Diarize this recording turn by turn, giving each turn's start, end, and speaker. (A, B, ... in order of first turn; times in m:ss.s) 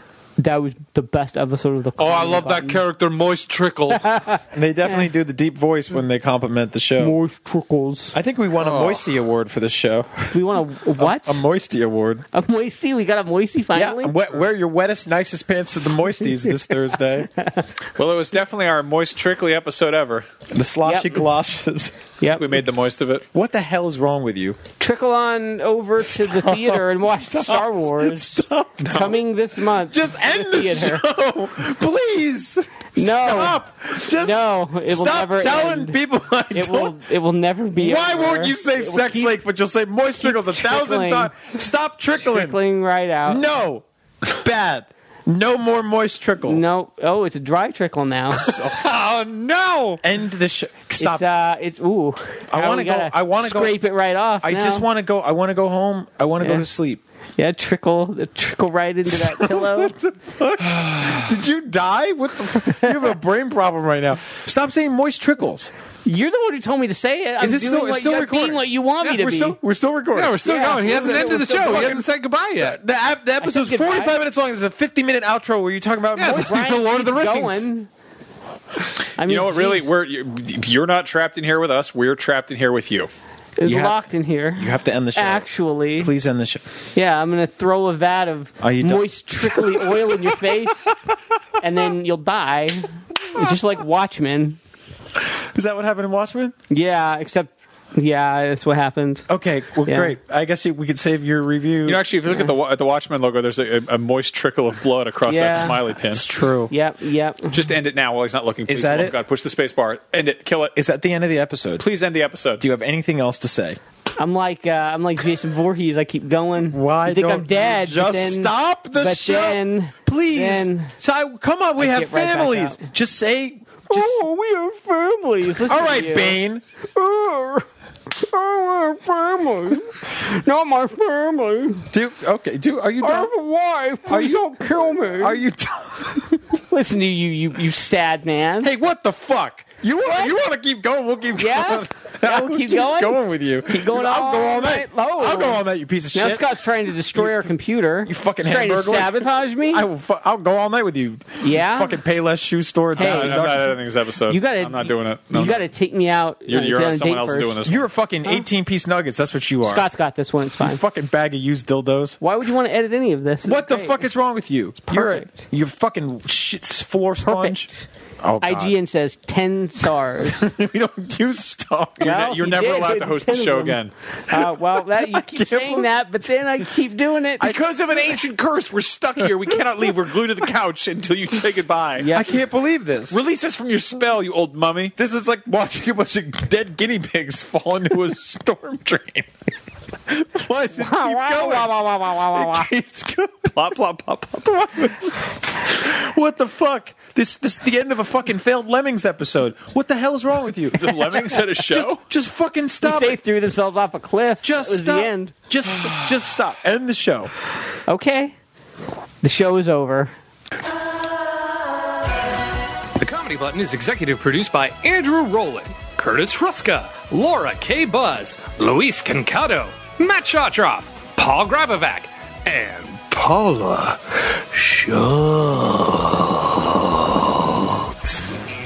0:00.4-0:02.8 A
0:02.0-0:04.1 B
0:03.9-0:05.1 A
0:04.5-0:07.2 C
0:07.0-0:08.2 A
0:08.1-0:10.4 C
0:08.6-0:09.0 D
0:10.3-0:11.4 A
0:11.0-0:12.2 C
0:12.3-0:14.1 A
0:13.7-0:17.3 C
0:17.3-0:17.7 A
0:18.0-0:20.3 D
0:20.5-0:22.0 C
0:20.8-0:21.2 A
0:22.2-0:22.6 A
0:22.3-0:23.2 D
0:23.3-0:24.6 C
0:24.8-0:31.0 A
0:26.0-0:29.2 C
0:29.8-0:37.0 C
0:33.0-0:36.0 A
0:36.5-0:39.4 A
0:37.8-0:42.6 C
0:40.2-0:41.3 A
0:42.2-0:43.4 A
0:43.2-0:46.6 C
0:46.5-0:48.5 A
0:48.4-0:48.8 C
0:48.8-0:50.0 B
0:50.0-0:51.2 C
0:51.0-0:54.8 A
0:52.5-0:53.8 C
0:54.4-0:57.0 C
0:56.4-0:56.7 A
0:57.4-0:59.9 A
0:59.1-1:05.7 C
1:02.6-1:03.1 A
1:06.0-1:09.6 A
1:07.4-1:16.7 C
1:10.1-1:12.8 B
1:10.4-1:12.0 A
1:13.4-1:14.2 A
1:16.1-1:17.7 B
1:16.2-1:17.9 A
1:19.2-1:19.9 A
1:19.2-1:23.1 D
1:23.6-1:26.1 A
1:23.6-1:24.0 C
1:24.6-1:26.6 C
1:26.9-1:30.9 A
1:28.6-1:30.4 C
1:31.6-1:34.6 A
1:35.5-1:36.5 C
1:36.7-1:39.2 A
1:39.3-1:42.0 C
1:39.8-1:40.1 A
1:41.8-1:46.2 D
1:45.2-1:45.9 A
1:46.0-1:46.7 C
1:46.7-1:47.7 A
1:47.5-1:50.8 D
1:48.7-1:49.2 C
1:50.8-1:51.8 C
1:51.8-1:52.6 D
1:52.6-1:53.8 C
1:54.2-2:00.9 A
1:56.7-2:04.2 C
2:01.8-2:02.8 A
2:03.9-2:06.4 A
2:05.7-2:06.6 C
2:06.9-2:07.7 A
2:08.2-2:11.9 A
2:11.9-2:13.3 C
2:13.0-2:15.4 A
2:14.1-2:16.4 C
2:16.7-2:18.7 A
2:18.6-2:26.4 C
2:20.0-2:20.4 A
2:21.4-2:29.8 A
2:27.1-2:27.5 C
2:28.0-2:33.8 C
2:31.4-2:32.0 A
2:33.0-2:33.7 A
2:33.0-2:35.6 D
2:34.3-2:37.6 A
2:36.5-2:37.9 D
2:37.6-2:39.8 C
2:39.6-2:40.8 A
2:40.6-2:42.2 C
2:42.2-2:44.0 A
2:43.4-2:48.8 C
2:44.9-2:45.3 A
2:47.2-2:47.8 A
2:48.4-2:50.5 A
2:50.2-2:52.2 C
2:52.0-2:57.5 A
2:52.0-2:53.9 D
2:54.3-2:55.9 C
2:57.4-3:02.1 D
3:02.0-3:02.3 A
3:02.1-3:03.2 C
3:03.1-3:04.9 D
3:05.0-3:09.3 C
3:10.1-3:13.6 C
3:10.8-3:12.7 A
3:13.5-3:15.1 D
3:14.8-3:15.1 C
3:15.6-3:20.9 C
3:20.7-3:22.0 D
3:21.1-3:21.4 A
3:21.6-3:23.2 C
3:22.8-3:25.3 A
3:24.4-3:27.3 C
3:27.9-3:28.3 A
3:29.2-3:30.1 A
3:33.0-3:46.1 E